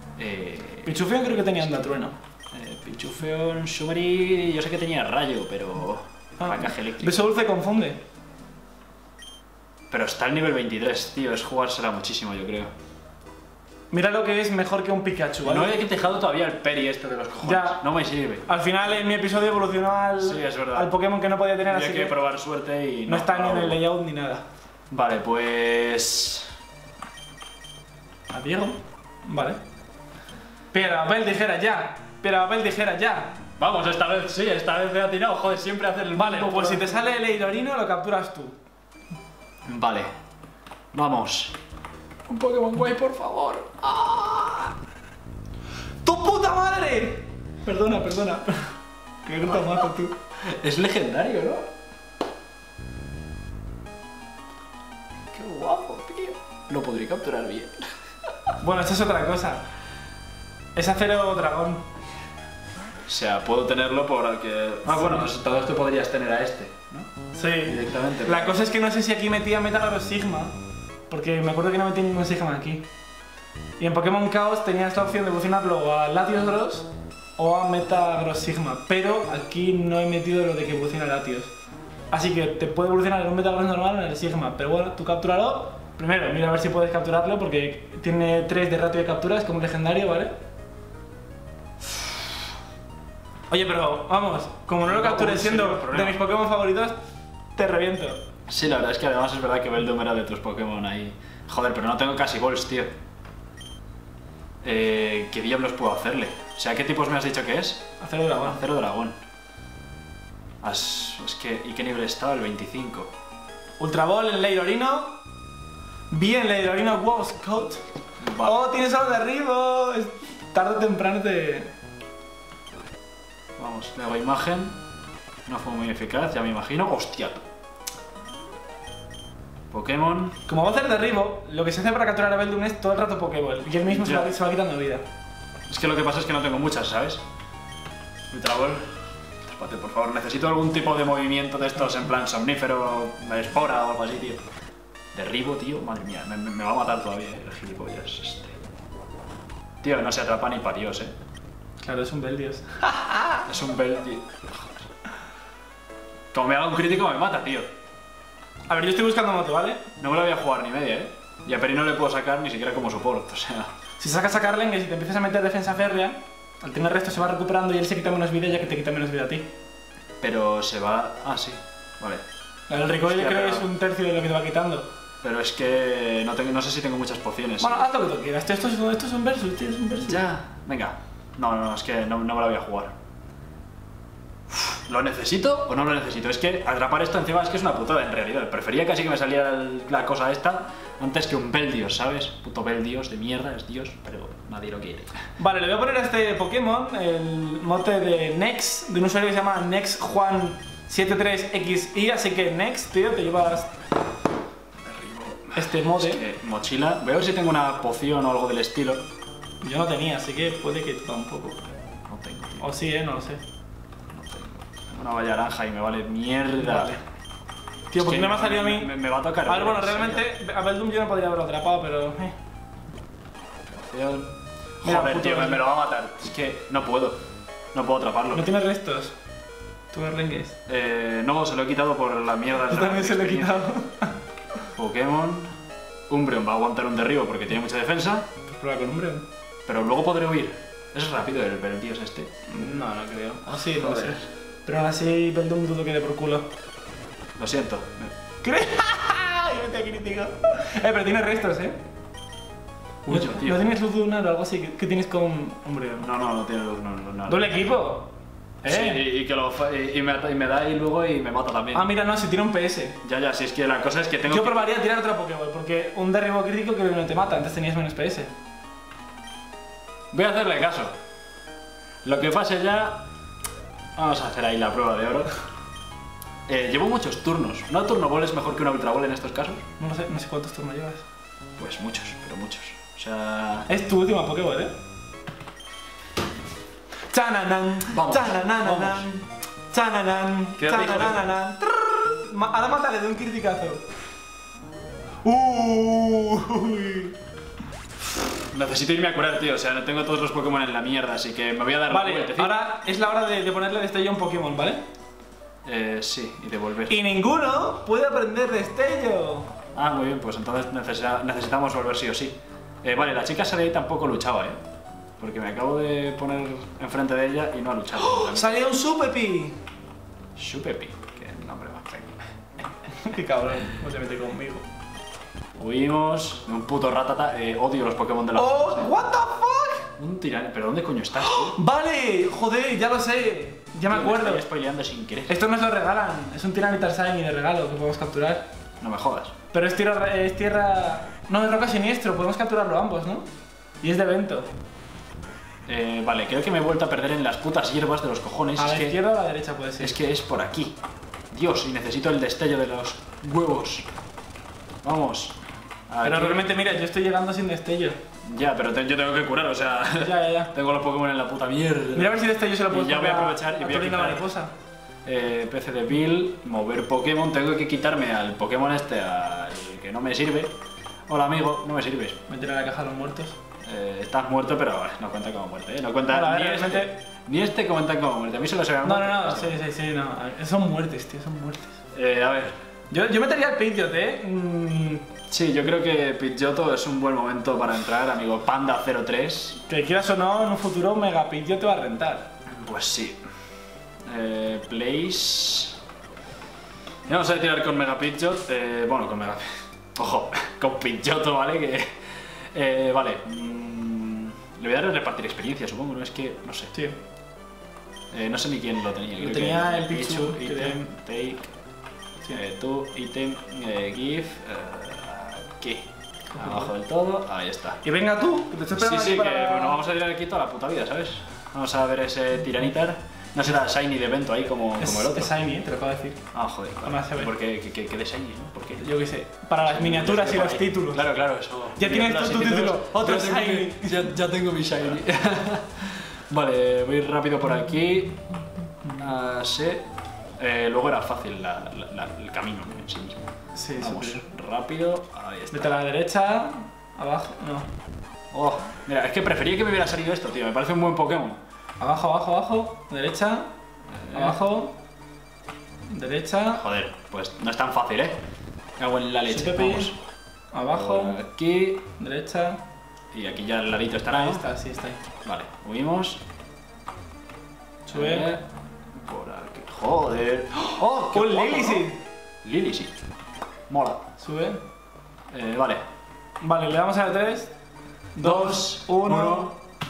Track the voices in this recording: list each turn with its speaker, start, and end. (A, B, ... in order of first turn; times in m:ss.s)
0:00.2-0:01.0 A
0:00.8-0:02.2 B
0:02.5-0:07.3 A
0:06.4-0:08.0 B
0:09.9-0:12.7 A
0:13.9-0:15.8 B
0:15.4-0:18.5 A
0:17.4-0:17.8 B
0:18.4-0:22.2 B
0:20.2-0:20.9 A
0:21.7-0:23.8 A
0:23.1-0:24.4 B
0:24.9-0:26.5 A
0:28.3-0:29.6 B
0:30.7-0:33.4 B
0:33.6-0:36.9 A
0:36.1-0:38.6 B
0:39.6-0:40.1 A
0:40.9-0:41.6 A
0:42.3-0:44.7 A
0:46.0-0:50.2 B
0:50.4-0:51.7 A
0:55.3-0:57.9 A
0:58.6-0:59.6 B
1:00.7-1:01.8 B
1:03.1-1:07.1 A
1:04.9-1:05.3 B
1:07.3-1:10.6 B
1:07.6-1:08.5 A
1:11.1-1:12.9 B
1:13.8-1:21.5 B
1:22.1-1:30.4 B
1:33.5-1:37.0 B
1:34.8-1:36.2 A
1:37.5-1:38.2 B
1:38.5-1:42.9 A
1:44.6-1:49.2 A
1:48.0-1:48.6 B
1:50.6-1:53.1 A
1:53.8-1:55.2 B
1:56.1-1:57.8 B
1:58.2-1:58.6 A
1:58.4-2:01.7 B
2:03.6-2:04.8 A
2:05.5-2:07.4 A
2:09.7-2:10.4 A
2:10.5-2:15.0 B
2:13.9-2:14.3 A
2:15.7-2:17.2 A
2:18.3-2:18.9 A
2:19.4-2:24.4 A
2:25.1-2:28.6 A
2:29.8-2:31.1 A
2:31.8-2:33.4 B
2:33.4-2:34.9 A
2:36.3-2:37.7 A
2:38.7-2:39.8 B
2:40.0-2:43.7 A
2:44.0-2:49.5 B
2:50.2-2:52.2 A
2:52.7-2:54.9 B
2:53.1-2:53.7 A
2:55.2-2:57.8 A
2:57.6-3:00.2 B
3:00.0-3:02.9 A
3:04.5-3:15.2 A
3:15.4-3:23.8 B
3:24.8-3:29.0 A
3:25.5-3:26.2 B
3:29.6-3:31.7 B
3:32.1-3:32.7 A
3:32.6-3:33.4 B
3:34.1-3:36.9 A
3:36.6-3:37.0 B
3:37.9-3:38.9 B
3:38.0-3:40.2 A
3:39.4-3:42.4 B
3:43.7-3:47.2 A
3:44.8-3:45.7 B
3:47.7-3:48.5 A
3:48.3-3:49.1 B
3:49.9-3:50.6 B
3:50.7-3:53.7 A
3:52.7-3:54.2 B
3:54.7-3:55.5 A
3:56.1-3:58.3 A
3:58.4-3:59.3 B
3:59.7-4:02.3 A
4:02.5-4:06.5 B
4:03.5-4:04.2 A
4:07.4-4:08.1 A
4:08.4-4:11.8 B
4:13.0-4:13.6 A
4:13.1-4:16.1 B
4:16.0-4:17.6 A
4:17.3-4:18.1 B
4:18.6-4:19.0 B
4:18.6-4:21.9 A
4:21.7-4:23.0 B
4:23.0-4:24.6 A
4:24.3-4:28.3 B
4:30.1-4:30.9 A
4:32.0-4:33.0 A
4:34.0-4:35.4 A
4:36.5-4:39.6 A
4:39.8-4:41.0 B
4:41.6-4:43.7 A
4:43.7-4:44.7 B
4:47.1-4:53.8 B
4:47.9-4:49.0 A
4:50.6-4:51.2 A
4:55.2-4:57.1 B
4:58.5-5:02.6 A
5:01.9-5:04.8 B
5:05.6-5:07.0 A
5:06.9-5:09.5 B
5:09.7-5:14.6 A
5:15.2-5:18.6 A
5:18.0-5:19.6 B
5:20.4-5:22.2 A
5:22.9-5:24.6 B
5:25.6-5:28.9 A
5:28.3-5:29.9 B
5:30.0-5:31.6 A
5:31.2-5:34.4 B
5:33.9-5:35.4 A
5:35.3-5:38.5 B
5:38.8-5:39.3 A
5:39.5-5:43.3 B
5:43.8-5:44.5 B
5:45.7-5:49.0 A
5:48.6-5:49.9 B
5:49.8-5:50.8 A
5:51.3-5:53.9 A
5:54.8-5:55.4 A
5:55.9-5:56.5 A
5:56.0-5:58.0 B
5:58.2-6:04.3 A
6:00.0-6:00.5 B
6:01.9-6:04.5 B
6:05.0-6:10.5 A
6:11.1-6:12.2 A
6:12.3-6:13.4 B
6:13.6-6:19.5 A
6:16.1-6:17.0 B
6:18.8-6:21.8 B
6:21.9-6:22.6 A
6:22.9-6:25.1 B
6:25.3-6:29.6 A
6:29.7-6:32.3 B
6:32.5-6:33.2 A
6:34.0-6:35.8 A
6:37.1-6:41.9 A
6:42.5-6:46.7 A
6:48.1-6:51.5 A
6:49.2-6:50.9 B
6:52.2-6:57.8 A
6:56.3-6:56.7 B
6:57.8-6:59.8 B
6:58.8-7:05.3 A
7:04.8-7:06.3 B
7:06.3-7:08.8 A
7:06.8-7:07.3 B
7:08.8-7:11.0 B
7:09.6-7:18.2 A
7:11.7-7:14.1 B
7:18.9-7:19.8 A
7:20.4-7:25.7 A
7:23.5-7:24.2 B
7:25.5-7:27.7 B
7:28.3-7:31.4 A
7:31.8-7:33.5 B
7:33.9-7:34.4 A
7:34.1-7:34.7 B
7:35.9-7:36.6 B
7:36.5-7:38.2 A
7:38.8-7:40.0 A
7:39.3-7:39.9 B
7:40.5-7:41.2 B
7:40.7-7:41.8 A
7:42.0-7:42.6 B
7:43.1-7:44.4 A
7:44.1-7:45.0 B
7:45.2-7:46.2 A
7:47.8-7:48.3 B
7:47.9-7:51.9 A
7:50.6-7:52.0 B
7:52.4-7:52.9 A
7:53.7-7:54.0 A
7:54.2-7:54.6 B
7:55.3-7:55.8 A
7:56.4-7:57.5 B
7:58.1-7:59.5 B
7:58.2-7:59.5 A